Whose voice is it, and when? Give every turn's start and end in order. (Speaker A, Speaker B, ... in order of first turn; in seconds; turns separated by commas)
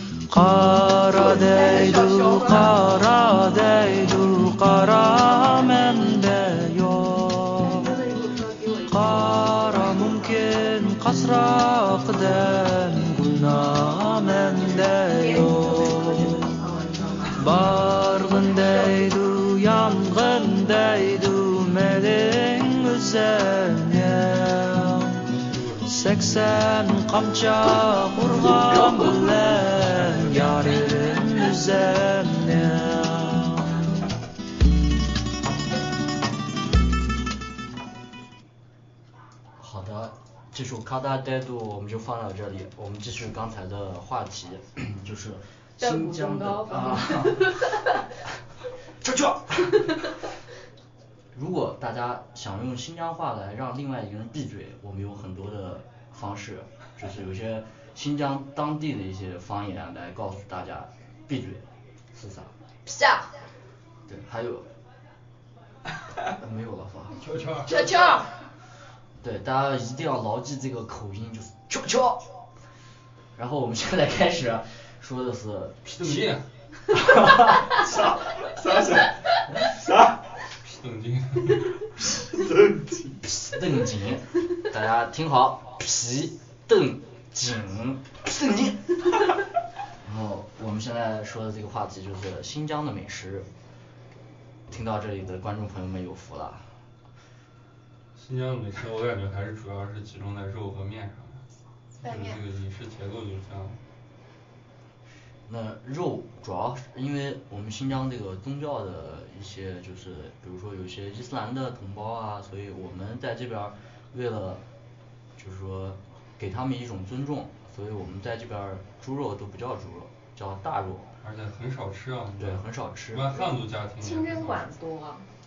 Speaker A: 0.3-7.9, Speaker B: 1.1-2.8, Speaker B: 7.6-10.3, Speaker A: 8.9-16.4, Speaker B: 15.1-17.4, Speaker A: 17.4-25.2, Speaker B: 18.6-19.0, Speaker C: 25.2-26.4, Speaker A: 25.9-33.9, Speaker D: 28.6-29.1, Speaker D: 30.3-30.8, Speaker D: 39.6-47.7, Speaker B: 45.8-47.5, Speaker D: 49.0-49.9, Speaker D: 51.3-62.5, Speaker B: 62.9-63.3, Speaker D: 64.1-64.7, Speaker D: 66.3-67.2, Speaker C: 67.2-68.0, Speaker B: 67.7-68.3, Speaker D: 69.2-72.3, Speaker D: 73.4-76.3, Speaker C: 76.0-76.5, Speaker D: 76.9-77.7, Speaker E: 77.7-80.2, Speaker C: 80.6-81.7, Speaker E: 82.0-83.2, Speaker D: 83.3-89.1, Speaker D: 90.0-93.5, Speaker D: 94.7-96.7, Speaker C: 98.2-101.4, Speaker B: 102.0-102.4, Speaker C: 102.0-103.8, Speaker D: 105.5-114.6, Speaker D: 115.4-121.1, Speaker C: 121.2-124.6, Speaker D: 122.4-123.4, Speaker B: 124.0-125.3